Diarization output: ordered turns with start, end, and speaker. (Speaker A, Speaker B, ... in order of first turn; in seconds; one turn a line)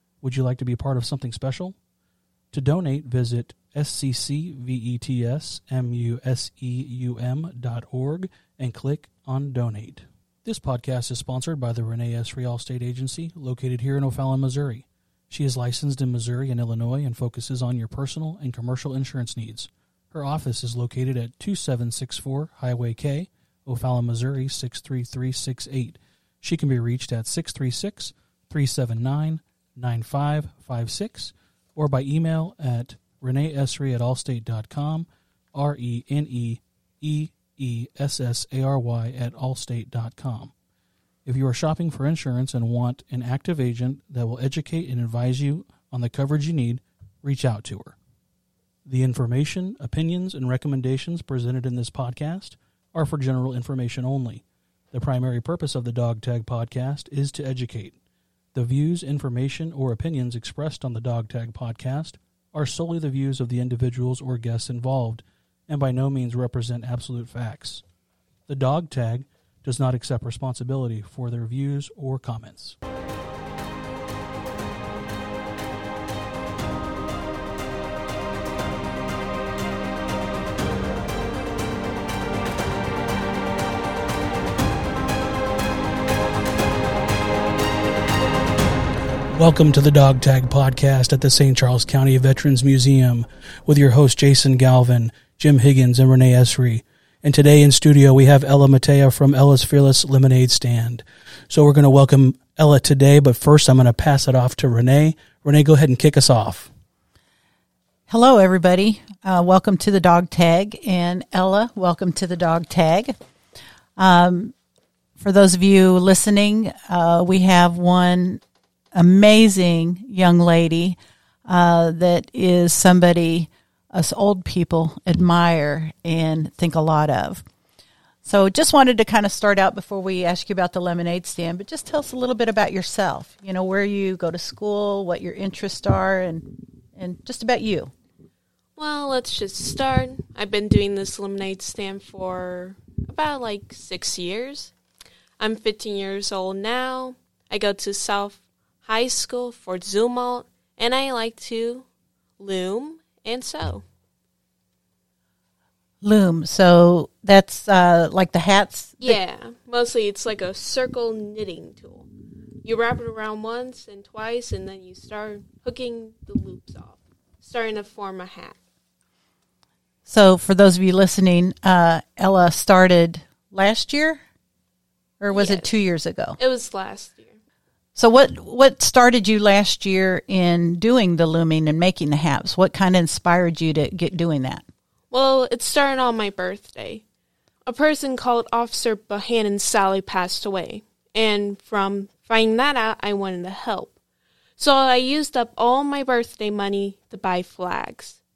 Speaker A: 0.2-1.8
Speaker A: 2.5-40.5
Speaker A: 41.3-48.0
Speaker A: 48.9-58.0
Speaker A: 58.5-67.8
Speaker A: 68.5-72.8
Speaker A: 89.3-106.7
Speaker B: 108.1-113.2
Speaker B: 114.0-114.5
Speaker B: 115.2-118.4
Speaker B: 118.9-127.4
Speaker B: 128.2-137.9
Speaker C: 138.8-144.7
Speaker C: 145.4-151.9
Speaker C: 152.4-153.8
Speaker B: 156.0-159.2
Speaker C: 159.0-162.1
Speaker C: 162.6-168.6
Speaker B: 170.1-174.2
Speaker B: 175.2-176.4
Speaker C: 175.3-175.7
Speaker C: 176.4-177.4
Speaker B: 178.0-184.7
Speaker C: 185.1-187.0
Speaker C: 187.7-193.9
Speaker C: 194.6-198.2